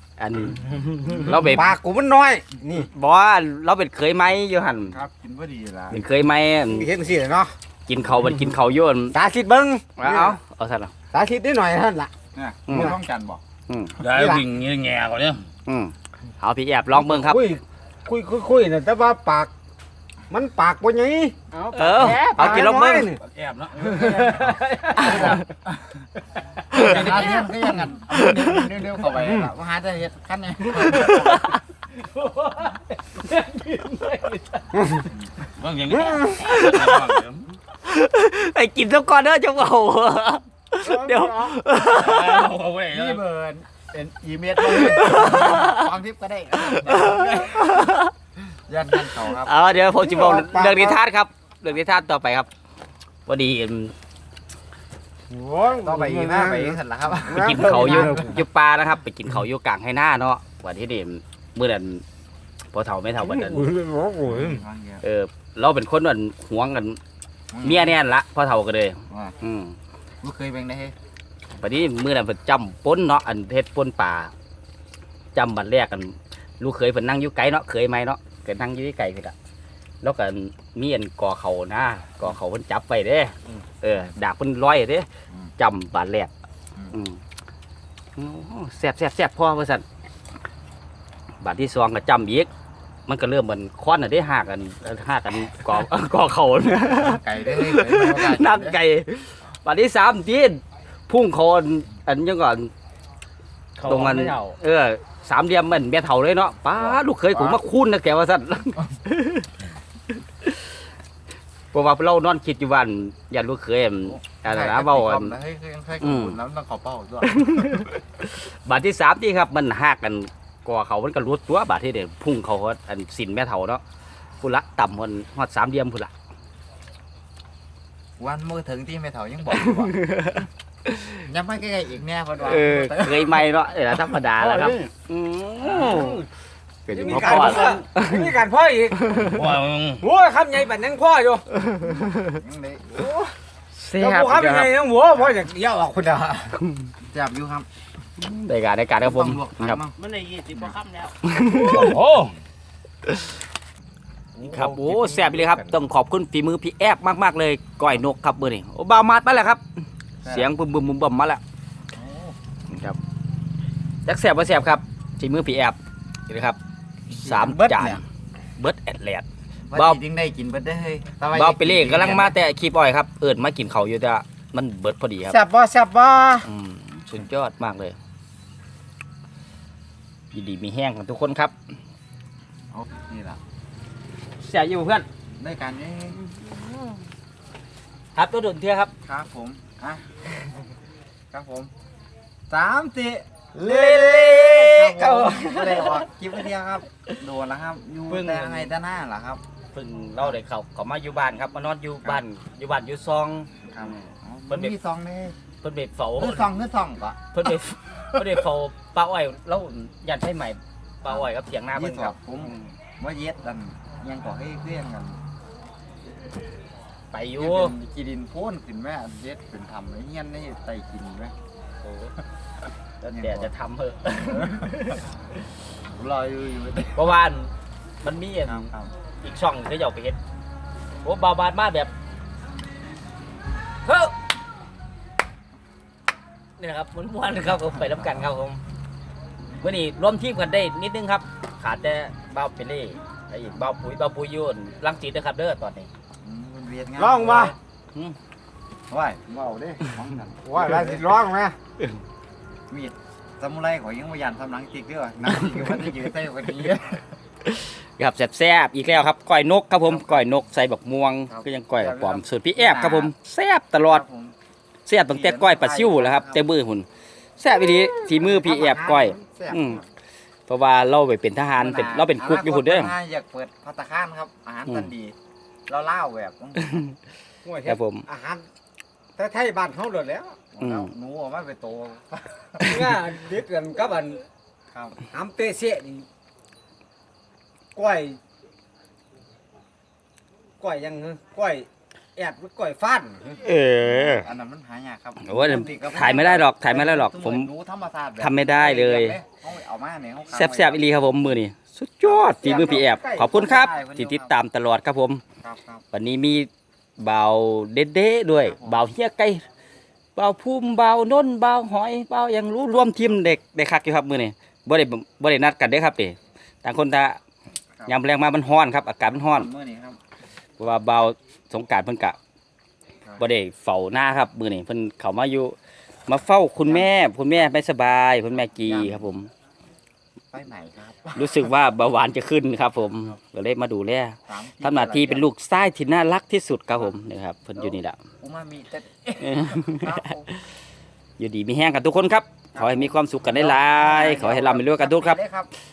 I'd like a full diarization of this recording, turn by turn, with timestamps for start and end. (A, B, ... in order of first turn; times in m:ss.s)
0:00.2-0:01.7 A
0:01.3-0:02.9 B
0:02.8-0:05.0 A
0:04.9-0:06.0 C
0:05.9-0:06.9 A
0:06.7-0:07.6 B
0:07.9-0:09.2 A
0:09.1-0:10.4 B
0:10.0-0:10.9 A
0:11.1-0:12.1 B
0:12.4-0:13.4 C
0:12.7-0:12.9 A
0:13.7-0:14.0 A
0:14.0-0:15.5 D
0:14.0-0:14.4 B
0:15.7-0:17.4 A
0:17.0-0:19.5 B
0:20.3-0:23.2 B
0:21.5-0:22.6 E
0:21.7-0:23.1 A
0:23.3-0:23.8 D
0:23.4-0:25.4 E
0:23.8-0:24.6 B
0:25.0-0:25.4 A
0:25.1-0:25.4 C
0:26.7-0:31.6 C
0:26.8-0:27.2 A
0:27.0-0:27.4 B
0:27.2-0:27.4 E
0:30.8-0:31.6 A
0:32.0-0:34.7 E
0:35.6-0:37.4 D
0:36.4-0:37.2 A
0:36.5-0:36.9 E
0:37.8-0:42.5 A
0:40.8-0:41.6 B
0:41.9-0:43.2 D
0:42.9-0:47.9 C
0:44.7-0:45.8 A
0:46.8-0:48.1 A
0:48.7-0:49.5 C
0:49.2-0:52.5 A
0:50.0-0:51.0 B
0:53.3-0:54.0 A
0:55.3-0:58.4 B
0:55.7-0:58.4 C
0:57.3-1:02.0 A
1:02.7-1:03.7 A
1:03.2-1:04.6 B
1:04.2-1:05.0 C
1:05.0-1:07.0 A
1:07.5-1:08.0 C
1:07.6-1:09.8 A
1:09.1-1:09.4 C
1:10.2-1:11.0 C
1:11.6-1:14.3 A
1:15.4-1:19.4 A
1:20.0-1:25.1 A
1:25.6-1:26.3 A
1:26.9-1:27.2 A
1:28.2-1:29.8 A
1:31.4-1:32.5 A
1:33.1-1:42.7 A
1:36.9-1:38.8 C
1:43.8-1:44.6 E
1:43.8-1:49.5 A
1:46.8-1:47.6 C
1:51.7-1:55.4 A
1:54.1-1:57.8 C
1:56.0-1:56.4 A
1:57.3-2:03.8 A
2:04.4-2:06.1 A
2:08.2-2:10.0 C
2:09.5-2:11.2 A
2:11.2-2:13.4 C
2:12.4-2:16.2 A
2:14.4-2:14.9 E
2:15.7-2:16.2 C
2:16.9-2:18.3 A
2:16.9-2:19.5 B
2:19.2-2:20.1 D
2:20.0-2:21.5 B
2:21.8-2:22.4 A
2:22.2-2:22.9 C
2:23.0-2:23.3 B
2:23.7-2:24.7 A
2:24.0-2:26.6 B
2:27.1-2:27.7 C
2:28.2-2:29.8 A
2:29.0-2:30.0 C
2:30.0-2:31.2 E
2:31.3-2:32.0 A
2:31.6-2:32.3 D
2:34.5-2:39.6 A
2:34.6-2:35.3 E
2:40.2-2:40.5 C
2:40.3-2:41.4 A
2:41.9-2:42.4 C
2:42.7-2:43.0 A
2:44.1-2:46.6 A
2:47.1-2:48.0 A
2:47.1-2:48.0 C
2:48.6-2:50.0 A
2:49.7-2:52.3 C
2:51.4-2:55.4 A
2:55.3-2:56.5 B
2:56.4-2:58.0 A
3:00.3-3:01.6 A
3:02.7-3:03.4 C
3:04.4-3:05.1 A
3:05.4-3:06.2 C
3:06.3-3:06.9 A
3:08.2-3:08.9 A
3:09.0-3:10.1 C
3:11.3-3:11.7 C
3:12.5-3:19.4 C
3:13.5-3:16.0 A
3:18.1-3:18.7 A
3:19.7-3:24.8 A
3:23.6-3:25.4 C
3:25.6-3:26.5 A
3:26.2-3:27.2 C
3:27.3-3:32.2 A
3:31.0-3:35.2 C
3:37.1-3:37.8 A
3:37.4-3:41.4 C
3:41.8-3:42.1 A
3:43.0-3:45.0 A
3:43.1-3:43.5 C
3:44.1-3:45.0 C
3:45.9-3:47.1 C
3:47.0-3:47.5 A
3:48.0-3:48.7 A
3:48.4-3:48.9 C
3:49.2-3:50.2 A
3:51.0-3:51.9 A
3:53.8-3:54.1 A
3:56.6-3:58.6 A
3:59.6-4:05.9 A
4:06.2-4:07.6 C
4:07.0-4:07.6 B
4:08.9-4:11.0 C
4:10.4-4:11.6 B
4:12.7-4:17.1 C
4:17.6-4:24.0 A
4:19.9-4:20.2 C
4:21.3-4:23.1 C
4:23.9-4:24.4 C
4:24.9-4:29.8 A
4:25.1-4:26.4 C
4:28.1-4:29.9 C
4:28.4-4:29.2 B
4:30.5-4:32.9 A
4:31.6-4:35.2 C
4:35.7-4:36.8 C
4:37.4-4:38.4 B
4:37.7-4:38.1 A
4:39.2-4:40.4 B
4:40.6-4:42.8 C
4:40.6-4:40.9 A
4:42.6-4:44.2 B
4:44.7-4:45.0 C
4:45.1-4:46.1 B
4:47.8-4:48.2 B
4:50.6-4:53.4 B
4:53.4-4:54.3 A
4:53.8-5:00.8 C
4:55.2-4:57.5 A
4:58.2-4:59.2 A
5:00.3-5:05.2 A
5:02.1-5:04.3 C
5:02.4-5:03.3 B
5:05.4-5:05.8 C
5:05.9-5:09.4 A
5:08.4-5:08.8 C
5:10.2-5:17.2 A
5:17.9-5:19.5 A
5:19.1-5:20.0 C
5:20.6-5:22.2 A
5:23.2-5:25.6 A
5:26.1-5:29.3 A
5:28.6-5:29.0 C
5:30.3-5:31.5 C
5:31.2-5:38.0 A
5:34.3-5:35.3 C
5:37.6-5:40.3 C
5:39.2-5:40.1 A
5:41.2-5:45.2 A
5:42.6-5:45.5 C